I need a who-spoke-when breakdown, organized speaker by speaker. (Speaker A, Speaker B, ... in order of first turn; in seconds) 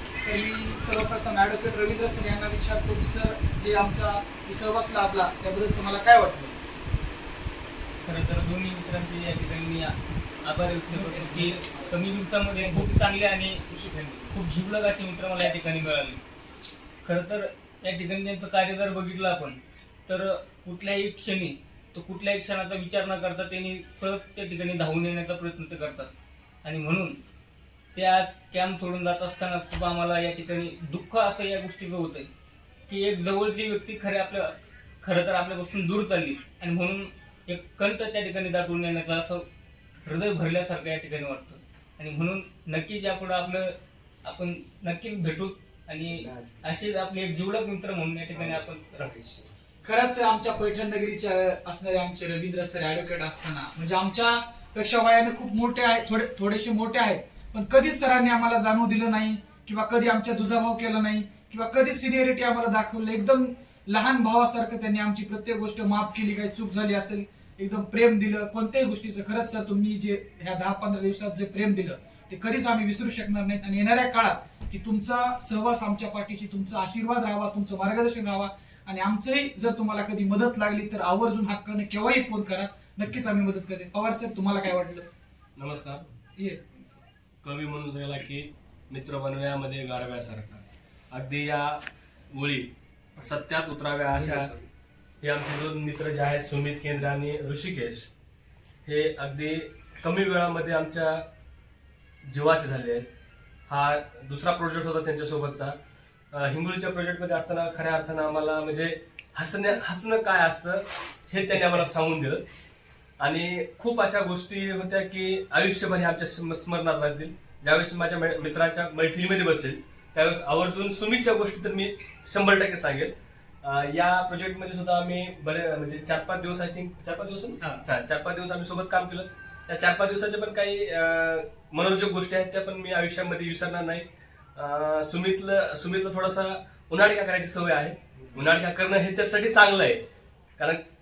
Speaker A: 0.2-6.6, 10.9-12.0, 12.6-12.9, 13.7-14.3, 49.8-85.1
Speaker B: 8.0-16.2, 17.0-26.1, 26.6-27.2, 27.9-32.3, 32.9-39.5, 40.0-49.2
Speaker C: 85.6-86.1, 87.4-94.5, 95.2-98.1, 98.9-101.2, 102.3-103.1, 103.7-105.8, 106.3-112.4, 113.2-140.0